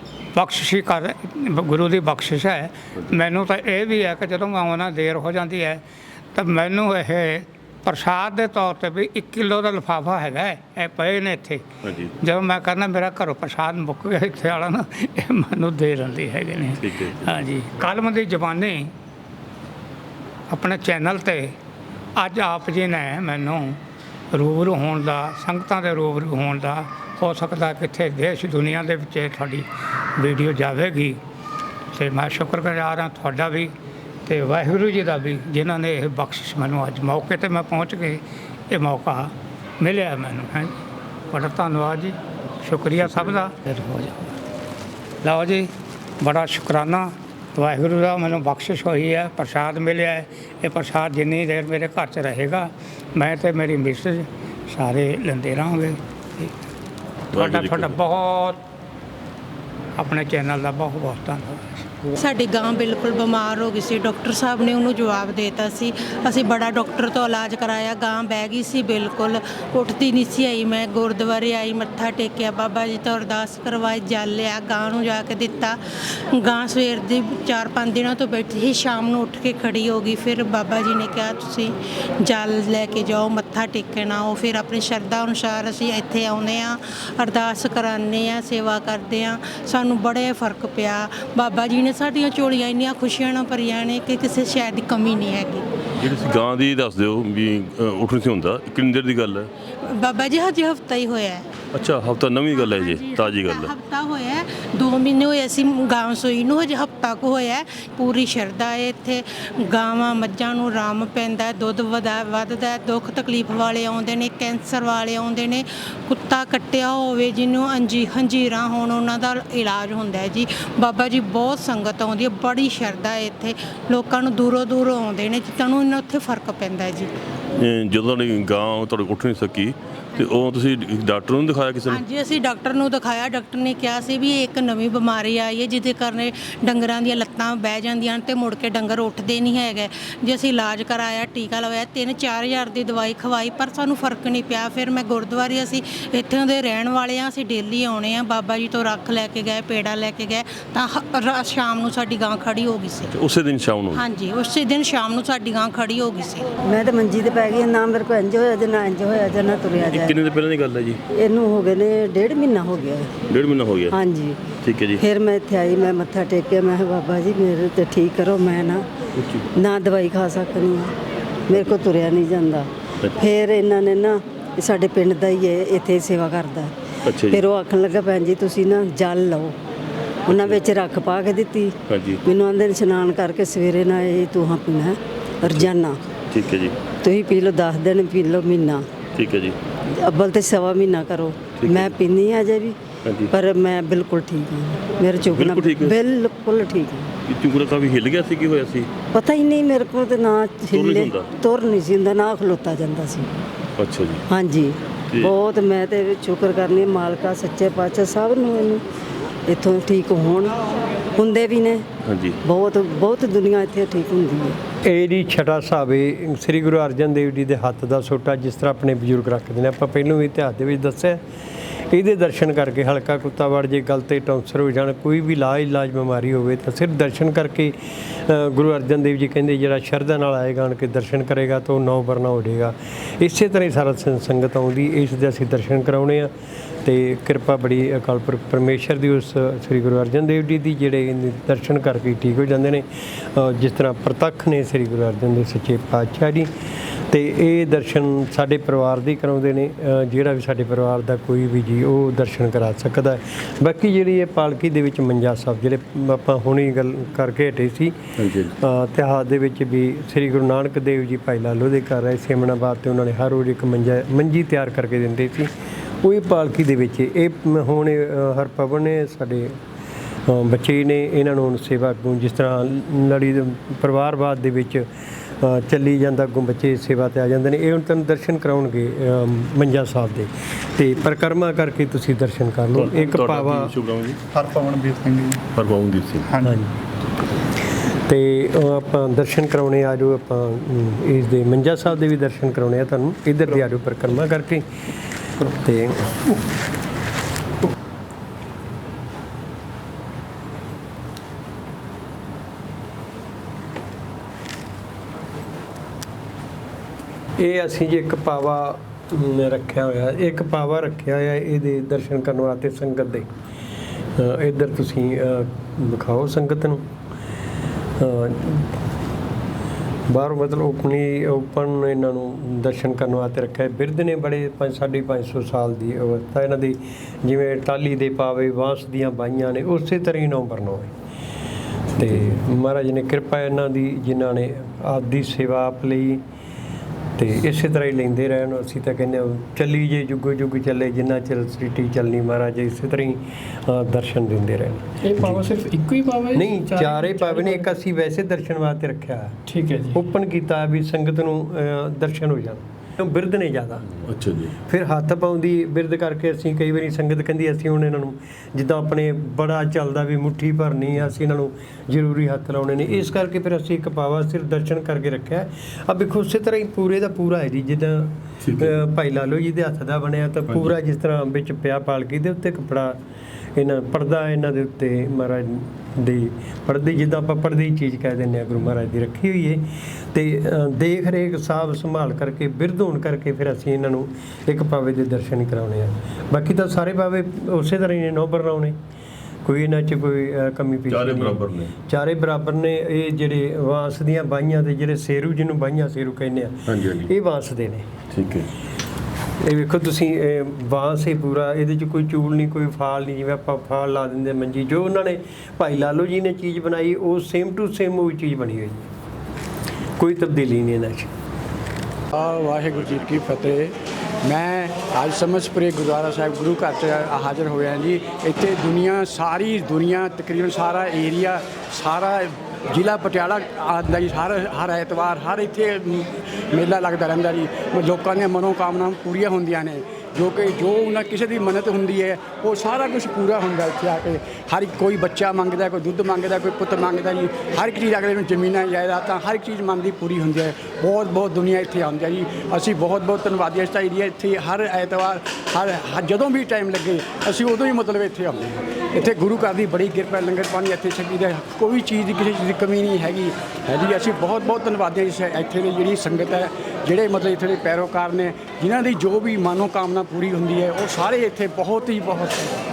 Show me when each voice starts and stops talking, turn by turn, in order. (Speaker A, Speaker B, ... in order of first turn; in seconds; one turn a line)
Speaker A: 0.3-5.8
Speaker A: 6.3-11.7
Speaker B: 11.8-12.1
Speaker A: 12.2-18.9
Speaker B: 16.8-17.3
Speaker A: 20.5-21.6
Speaker A: 22.1-23.8
Speaker A: 24.3-31.2
Speaker A: 31.9-33.7
Speaker A: 34.3-40.7
Speaker A: 41.3-44.2
Speaker A: 45.2-56.5
Speaker B: 57.3-58.0
Speaker A: 57.3-58.6
Speaker A: 60.0-61.8
Speaker C: 62.2-75.8
Speaker C: 76.3-95.7
Speaker B: 96.0-99.5
Speaker C: 99.8-101.5
Speaker B: 101.7-103.7
Speaker C: 102.8-127.1
Speaker B: 127.6-132.0
Speaker C: 131.9-153.1
Speaker B: 153.1-154.0
Speaker C: 153.9-156.5
Speaker D: 156.6-160.2
Speaker B: 159.8-161.0
Speaker D: 161.1-163.1
Speaker B: 163.3-164.0
Speaker D: 163.9-164.4
Speaker B: 164.6-165.0
Speaker D: 165.0-168.8
Speaker B: 169.2-169.5
Speaker D: 169.6-170.9
Speaker D: 171.5-179.6
Speaker B: 171.5-171.8
Speaker B: 177.1-177.4
Speaker D: 180.3-186.0
Speaker B: 180.3-180.6
Speaker B: 181.9-182.2
Speaker B: 185.4-185.7
Speaker B: 186.3-186.8
Speaker D: 187.0-188.9
Speaker B: 189.2-189.6
Speaker D: 189.9-192.8
Speaker B: 191.6-192.0
Speaker B: 193.1-193.3
Speaker D: 193.3-197.1
Speaker B: 195.3-195.9
Speaker B: 197.3-198.9
Speaker D: 199.1-203.3
Speaker B: 200.7-201.3
Speaker B: 203.8-204.2
Speaker D: 204.3-208.8
Speaker D: 209.5-210.6
Speaker D: 211.2-211.8
Speaker B: 212.1-212.4
Speaker D: 212.4-214.6
Speaker E: 214.8-221.2
Speaker E: 221.9-236.3
Speaker E: 236.8-246.5
Speaker E: 247.1-269.6
Speaker B: 258.2-258.5
Speaker E: 270.3-274.9
Speaker E: 275.4-283.7
Speaker B: 282.7-284.2
Speaker F: 284.3-285.4
Speaker B: 285.5-286.4
Speaker E: 286.4-286.8
Speaker E: 288.1-294.7
Speaker E: 295.4-296.4
Speaker E: 307.4-313.4
Speaker E: 314.2-316.8
Speaker E: 318.0-318.8
Speaker E: 320.1-330.9
Speaker B: 331.9-332.3
Speaker E: 332.0-336.2
Speaker E: 337.2-345.1
Speaker F: 345.0-347.7
Speaker E: 346.3-349.4
Speaker F: 349.5-350.0
Speaker E: 349.9-353.9
Speaker B: 354.1-354.6
Speaker E: 354.7-373.0
Speaker B: 368.4-368.7
Speaker E: 373.6-388.8
Speaker E: 389.4-397.9
Speaker B: 390.9-391.7
Speaker B: 396.7-397.1
Speaker B: 398.1-398.5
Speaker E: 399.4-408.9
Speaker E: 410.0-411.1
Speaker G: 412.1-462.6